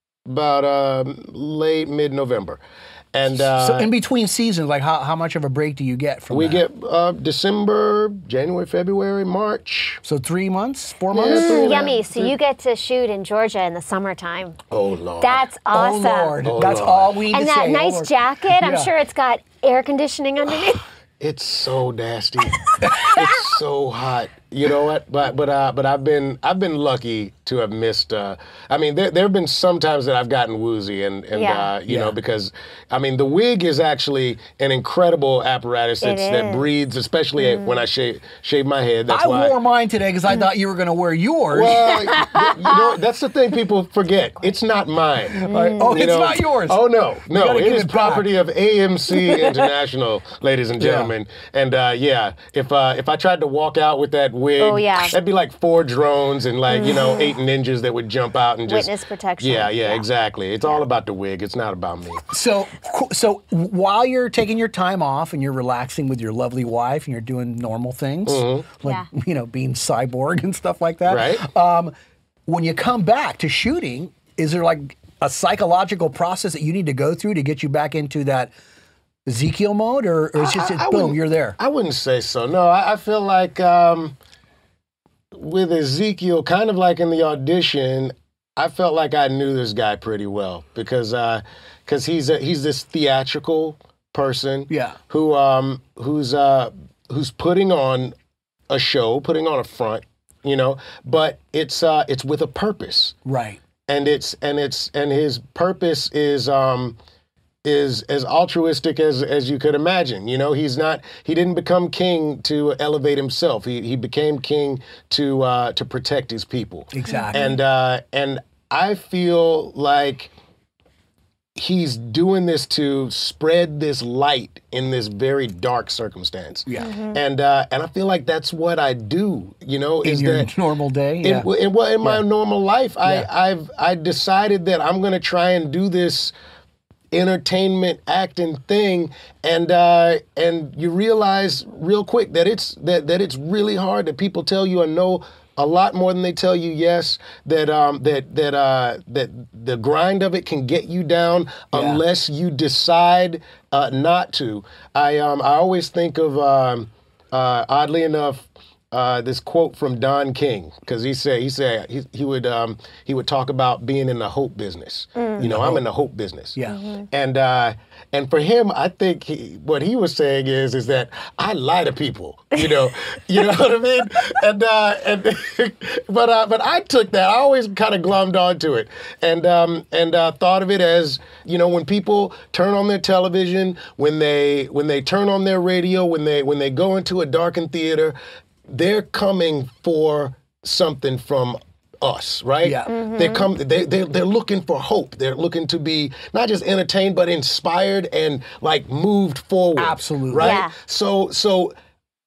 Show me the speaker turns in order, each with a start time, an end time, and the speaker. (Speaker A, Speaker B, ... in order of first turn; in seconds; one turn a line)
Speaker A: 0.2-2.6
Speaker A: 3.1-3.9
Speaker B: 3.4-6.6
Speaker A: 6.3-10.0
Speaker B: 10.0-11.8
Speaker A: 11.1-12.3
Speaker C: 11.2-14.6
Speaker A: 14.7-15.4
Speaker C: 15.2-16.4
Speaker B: 15.7-18.9
Speaker A: 16.4-17.2
Speaker C: 17.3-20.8
Speaker A: 21.2-39.5
Speaker B: 22.8-23.2
Speaker C: 31.3-31.7
Speaker B: 31.9-32.1
Speaker C: 36.0-36.7
Speaker C: 37.4-37.8
Speaker B: 39.1-41.9
Speaker A: 41.5-62.2
Speaker C: 42.1-42.9
Speaker B: 45.3-48.3
Speaker C: 45.5-46.1
Speaker B: 50.8-51.1
Speaker C: 54.6-55.1
Speaker C: 56.7-57.4
Speaker C: 58.7-60.0
Speaker B: 62.3-71.9
Speaker A: 68.2-68.7
Speaker A: 71.1-71.5
Speaker B: 72.5-78.5
Speaker B: 79.2-81.6
Speaker A: 80.3-84.1
Speaker A: 85.3-98.1
Speaker B: 94.7-95.0
Speaker A: 98.7-103.2
Speaker B: 103.2-103.6
Speaker A: 103.9-107.0
Speaker A: 107.6-120.3
Speaker B: 116.9-117.5
Speaker C: 117.1-117.5
Speaker A: 121.5-130.5
Speaker C: 126.8-127.2
Speaker B: 130.0-131.5
Speaker A: 131.2-136.3
Speaker A: 137.1-201.7
Speaker B: 151.7-152.0
Speaker C: 165.2-165.4
Speaker B: 165.4-165.8
Speaker C: 166.7-167.0
Speaker B: 192.6-192.9
Speaker C: 192.9-193.5
Speaker B: 199.8-200.5
Speaker C: 200.4-200.7